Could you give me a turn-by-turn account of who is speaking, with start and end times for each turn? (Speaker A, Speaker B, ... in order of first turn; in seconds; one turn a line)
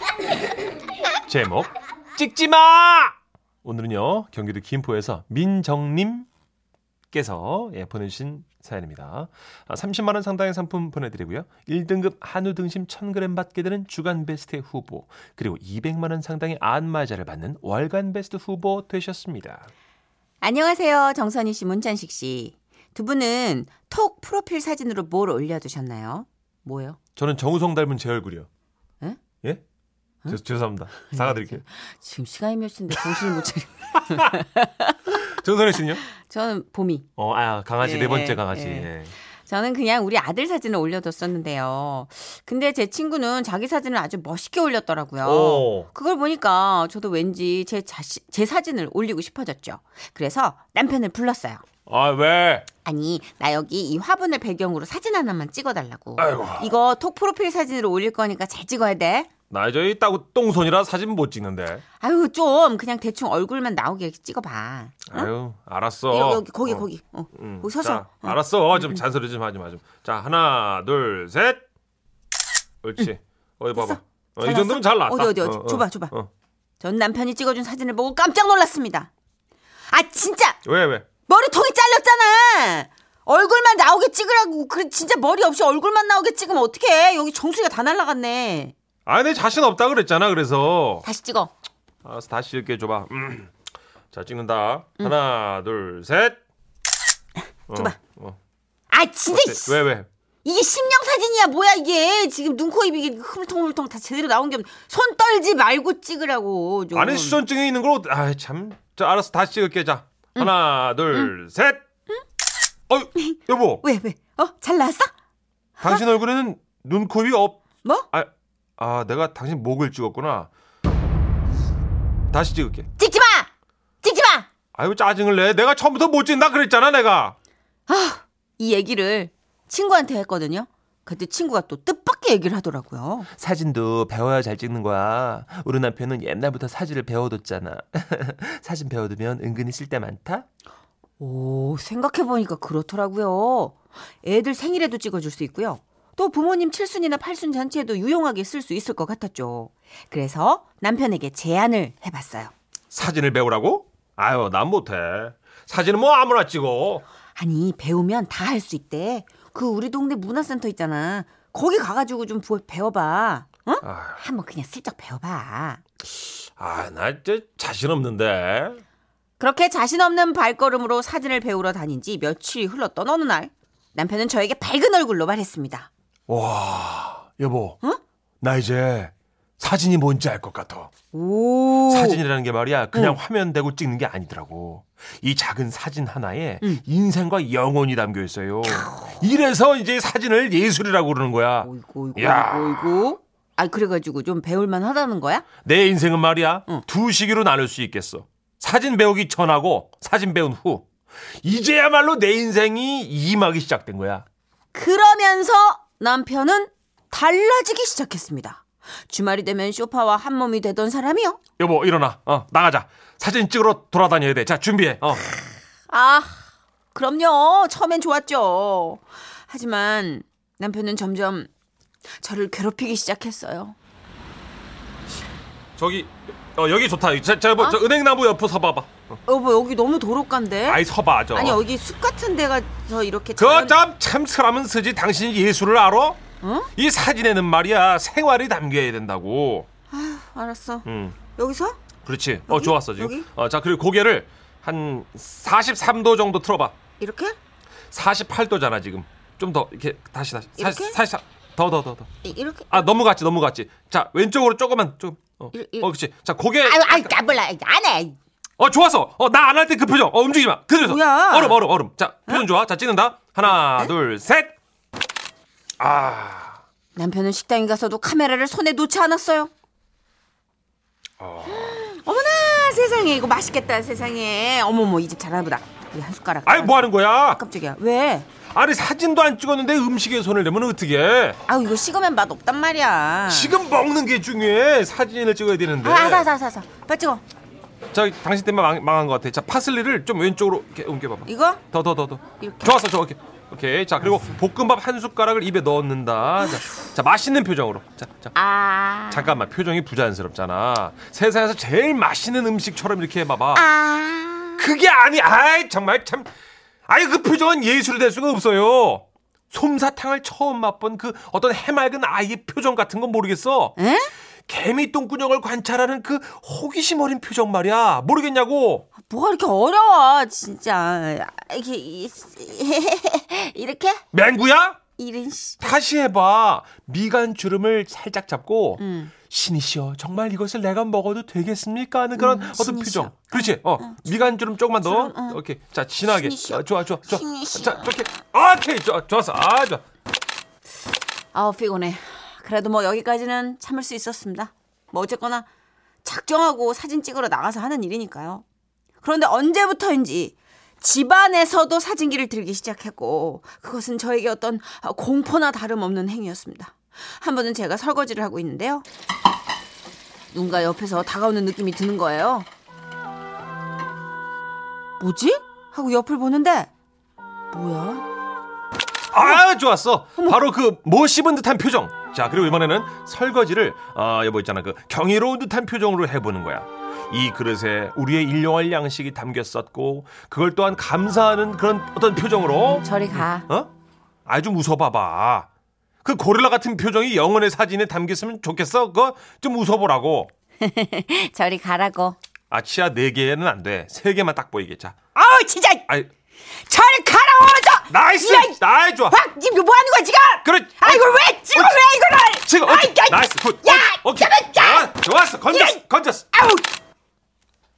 Speaker A: 1.3-6.3
Speaker A: 7.1-19.7
Speaker B: 20.4-27.0
Speaker A: 27.2-28.5
Speaker A: 30.3-31.6
Speaker B: 31.1-35.3
Speaker A: 34.0-34.4
Speaker A: 35.1-36.0
Speaker B: 36.1-37.1
Speaker A: 37.2-39.1
Speaker B: 37.8-51.6
Speaker A: 45.2-45.9
Speaker A: 51.9-52.7
Speaker B: 52.8-59.3
Speaker A: 56.2-56.7
Speaker A: 59.5-61.8
Speaker B: 62.0-65.3
Speaker A: 65.1-71.6
Speaker B: 66.1-69.0
Speaker A: 72.8-76.3
Speaker B: 73.8-76.2
Speaker B: 76.8-79.1
Speaker B: 79.9-80.6
Speaker A: 80.7-81.1
Speaker B: 81.3-88.7
Speaker A: 89.1-91.0
Speaker B: 91.0-91.5
Speaker A: 92.0-93.5
Speaker A: 94.1-96.4
Speaker A: 97.7-98.4
Speaker B: 98.9-99.8
Speaker A: 99.3-100.1
Speaker B: 100.4-107.4
Speaker A: 106.9-111.8
Speaker B: 110.4-111.3
Speaker A: 112.9-113.8
Speaker B: 113.2-115.1
Speaker A: 115.8-120.5
Speaker A: 122.3-122.9
Speaker B: 123.0-123.5
Speaker B: 124.0-124.5
Speaker A: 124.8-127.3
Speaker B: 127.9-133.3
Speaker A: 133.3-140.4
Speaker B: 141.2-152.5
Speaker A: 152.9-157.1
Speaker B: 157.3-165.8
Speaker A: 163.8-164.2
Speaker A: 166.2-168.8
Speaker B: 169.4-175.9
Speaker A: 176.3-177.8
Speaker A: 178.4-180.9
Speaker B: 181.1-182.2
Speaker A: 181.9-193.1
Speaker B: 182.9-183.2
Speaker B: 191.6-195.4
Speaker A: 195.6-204.3
Speaker B: 204.7-211.4
Speaker A: 211.6-215.3
Speaker B: 215.9-221.5
Speaker B: 222.2-223.8
Speaker A: 225.8-229.2
Speaker B: 229.3-233.8
Speaker A: 230.7-231.6
Speaker A: 233.4-236.2
Speaker B: 236.4-236.7
Speaker A: 236.8-239.7
Speaker B: 239.9-241.8
Speaker A: 240.8-241.2
Speaker A: 242.1-246.8
Speaker B: 242.5-243.3
Speaker B: 247.0-247.4
Speaker A: 247.9-252.1
Speaker B: 250.6-251.0
Speaker B: 252.2-252.9
Speaker A: 252.7-257.1
Speaker B: 255.5-255.9
Speaker B: 256.6-258.2
Speaker A: 258.6-264.6
Speaker B: 260.8-261.7
Speaker B: 263.5-263.9
Speaker A: 265.8-266.6
Speaker B: 266.9-269.5
Speaker A: 271.2-271.8
Speaker B: 271.5-278.3
Speaker A: 276.5-277.4
Speaker A: 278.5-281.4
Speaker B: 281.5-283.6
Speaker A: 283.3-286.3
Speaker B: 285.8-287.2
Speaker A: 287.9-298.3
Speaker B: 291.3-291.6
Speaker B: 292.4-292.7
Speaker B: 298.3-299.4
Speaker A: 299.1-303.7
Speaker B: 303.5-304.6
Speaker A: 304.6-306.3
Speaker A: 306.9-313.8
Speaker B: 313.8-314.1
Speaker A: 314.5-318.9
Speaker B: 319.0-324.0
Speaker A: 324.1-324.8
Speaker B: 325.0-325.7
Speaker A: 325.6-339.8
Speaker B: 328.8-329.1
Speaker B: 332.2-335.4
Speaker B: 336.0-338.0
Speaker B: 341.3-345.5
Speaker B: 346.0-348.4
Speaker B: 349.0-358.9
Speaker B: 360.3-362.5
Speaker B: 365.0-366.7
Speaker B: 367.5-368.1
Speaker A: 369.1-383.7
Speaker B: 382.7-383.5
Speaker A: 384.3-385.5
Speaker A: 386.0-390.3
Speaker B: 390.6-392.2
Speaker A: 392.5-395.0
Speaker B: 395.1-395.9
Speaker B: 396.5-404.9
Speaker A: 397.9-399.2
Speaker A: 400.4-401.8
Speaker A: 402.4-406.3
Speaker B: 405.5-405.8
Speaker B: 406.3-406.7